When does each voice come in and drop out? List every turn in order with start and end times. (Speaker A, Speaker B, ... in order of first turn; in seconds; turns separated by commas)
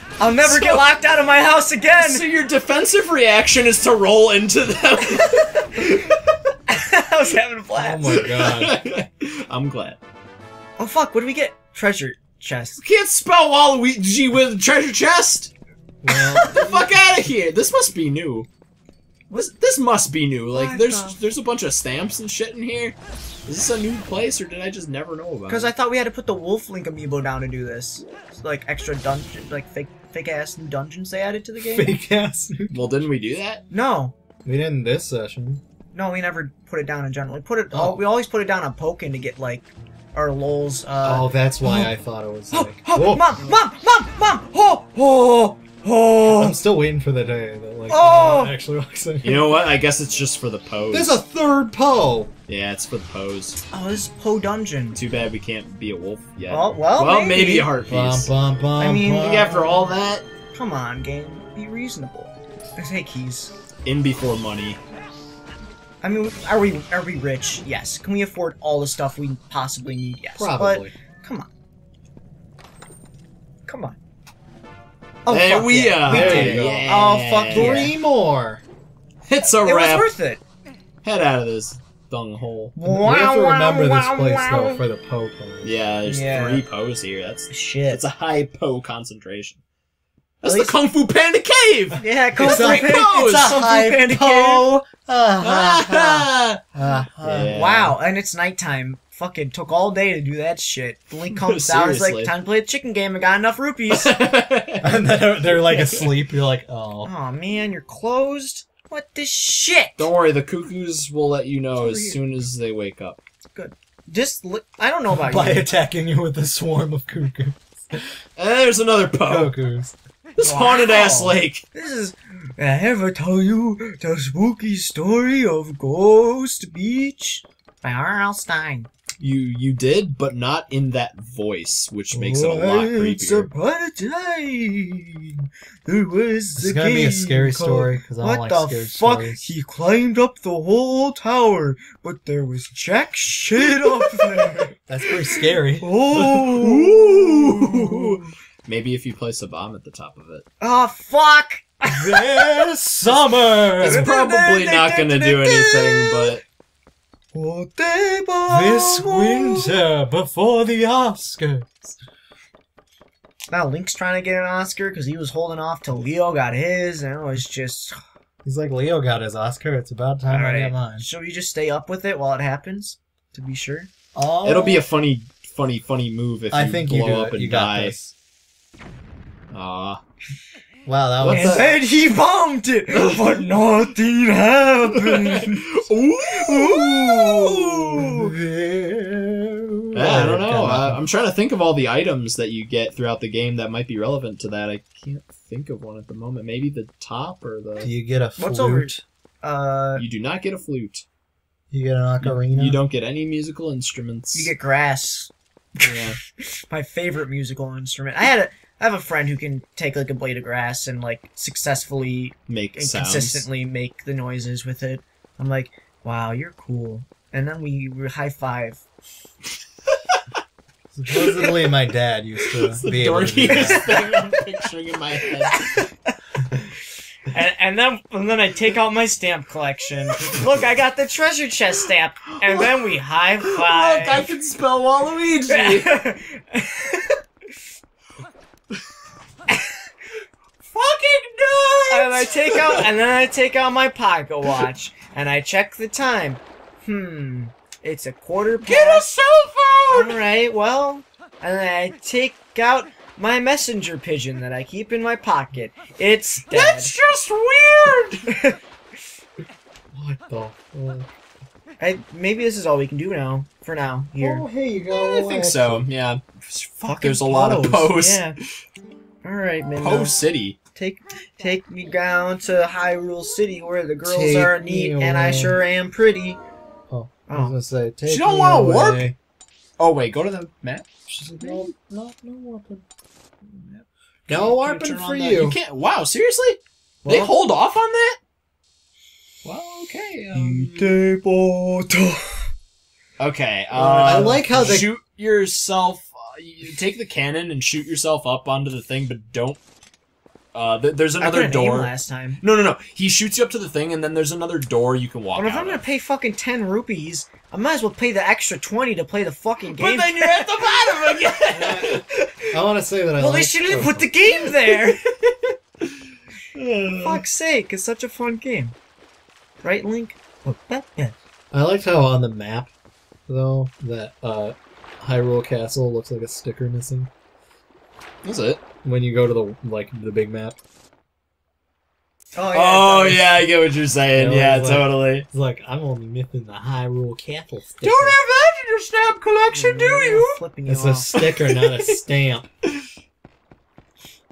Speaker A: 0.2-2.2, Speaker B: 0.4-0.8, Speaker B: 1.9-6.2, Speaker A: 5.0-6.0, Speaker A: 6.7-8.2, Speaker C: 7.8-8.8, Speaker B: 8.1-10.0, Speaker A: 10.8-12.8, Speaker B: 12.8-15.5, Speaker C: 16.0-16.5, Speaker B: 16.4-18.5, Speaker A: 16.4-16.8, Speaker B: 19.3-25.7, Speaker A: 20.5-21.2, Speaker A: 25.5-31.9, Speaker C: 31.6-32.8, Speaker B: 32.7-33.6, Speaker A: 33.7-34.1, Speaker C: 34.4-35.6, Speaker A: 35.9-41.9, Speaker C: 37.7-38.0, Speaker C: 41.0-43.3, Speaker A: 42.5-46.6, Speaker C: 46.2-49.6, Speaker A: 47.9-48.5, Speaker B: 49.2-51.2, Speaker C: 50.9-52.3, Speaker B: 52.5-53.6, Speaker A: 53.7-55.0, Speaker B: 54.9-58.3, Speaker A: 56.5-57.7, Speaker C: 57.8-59.6, Speaker A: 58.8-59.5, Speaker B: 59.2-60.2, Speaker A: 60.5-63.5, Speaker B: 63.8-64.8, Speaker A: 66.0-71.5, Speaker C: 70.3-70.9, Speaker A: 73.7-74.0, Speaker A: 75.2-77.9, Speaker B: 75.3-77.9, Speaker C: 76.0-76.9, Speaker C: 77.5-78.6, Speaker B: 79.3-80.1, Speaker A: 79.5-80.4, Speaker B: 81.0-82.7, Speaker A: 82.8-84.8, Speaker C: 82.8-85.7, Speaker B: 85.6-89.6, Speaker A: 86.0-86.6, Speaker A: 87.5-88.0, Speaker B: 90.4-93.6, Speaker A: 90.4-90.8, Speaker A: 92.0-94.9, Speaker C: 92.3-96.1, Speaker B: 95.4-96.6, Speaker C: 96.7-97.6, Speaker B: 97.2-97.9, Speaker A: 97.5-104.2, Speaker B: 101.3-102.3, Speaker B: 103.9-106.2, Speaker C: 104.8-107.1, Speaker A: 107.0-110.1, Speaker B: 110.0-113.2, Speaker A: 111.7-112.2, Speaker A: 113.5-115.7, Speaker C: 115.1-118.0, Speaker B: 118.4-119.5, Speaker C: 119.2-119.9, Speaker B: 120.3-121.6, Speaker A: 120.4-128.9, Speaker B: 129.2-133.5, Speaker A: 132.1-144.7, Speaker C: 136.6-139.5, Speaker C: 144.8-145.9, Speaker A: 145.3-148.2, Speaker B: 146.3-150.4, Speaker A: 150.6-152.7, Speaker C: 151.9-154.2, Speaker B: 153.8-156.4, Speaker A: 153.8-156.4, Speaker A: 157.3-159.8, Speaker C: 158.5-161.8, Speaker A: 163.5-168.0, Speaker C: 168.4-171.1, Speaker A: 170.3-173.9, Speaker C: 174.1-174.9, Speaker B: 174.4-178.0, Speaker C: 176.5-178.1, Speaker B: 179.5-180.0, Speaker C: 180.8-181.8, Speaker B: 181.2-181.8, Speaker A: 181.3-185.7, Speaker B: 182.9-183.4, Speaker B: 184.9-188.0, Speaker A: 186.2-188.4, Speaker C: 188.0-191.0, Speaker B: 189.9-197.9, Speaker C: 197.8-199.0, Speaker A: 198.4-200.0, Speaker B: 199.9-201.0, Speaker C: 201.7-202.8, Speaker B: 202.2-204.5, Speaker A: 204.3-205.3, Speaker B: 205.8-206.2, Speaker A: 206.7-218.8, Speaker B: 212.5-213.4, Speaker C: 220.9-223.9, Speaker B: 221.1-221.7, Speaker B: 222.5-225.9, Speaker A: 223.5-224.4, Speaker A: 225.4-226.1, Speaker A: 227.3-234.3, Speaker B: 232.4-232.7, Speaker B: 233.4-235.9, Speaker A: 235.5-237.2, Speaker A: 239.5-239.8, Speaker B: 240.7-242.8, Speaker A: 241.9-249.1, Speaker B: 248.6-250.2, Speaker A: 249.9-256.9, Speaker B: 256.5-258.2, Speaker A: 258.3-258.6, Speaker C: 259.9-261.1, Speaker A: 261.8-265.4, Speaker C: 264.2-265.9, Speaker B: 265.2-268.3, Speaker A: 266.8-268.4, Speaker A: 269.2-270.2, Speaker B: 269.8-270.6, Speaker A: 270.7-276.4, Speaker C: 274.0-275.6, Speaker C: 276.9-279.1, Speaker A: 277.3-277.5, Speaker B: 278.0-279.1, Speaker B: 279.8-280.9, Speaker C: 281.1-282.8, Speaker B: 281.4-281.7, Speaker A: 283.6-285.4, Speaker C: 284.3-285.6, Speaker B: 285.1-288.2, Speaker A: 287.0-287.3, Speaker B: 289.4-291.0, Speaker A: 290.3-292.5, Speaker B: 293.2-299.6, Speaker A: 293.8-294.8, Speaker C: 293.8-294.9, Speaker B: 300.5-305.8, Speaker A: 301.2-302.4, Speaker A: 305.3-310.5, Speaker B: 309.6-312.0, Speaker C: 311.5-314.1, Speaker A: 313.2-315.0, Speaker B: 314.4-315.5, Speaker B: 316.5-317.2, Speaker A: 317.0-318.7, Speaker A: 319.6-321.1, Speaker C: 321.5-322.7, Speaker C: 323.3-327.1, Speaker B: 328.2-328.6, Speaker C: 328.8-330.6, Speaker A: 332.3-333.4, Speaker B: 332.5-335.3, Speaker C: 334.1-338.2, Speaker B: 337.8-340.4, Speaker A: 339.5-341.1, Speaker C: 340.7-342.5, Speaker B: 341.1-342.0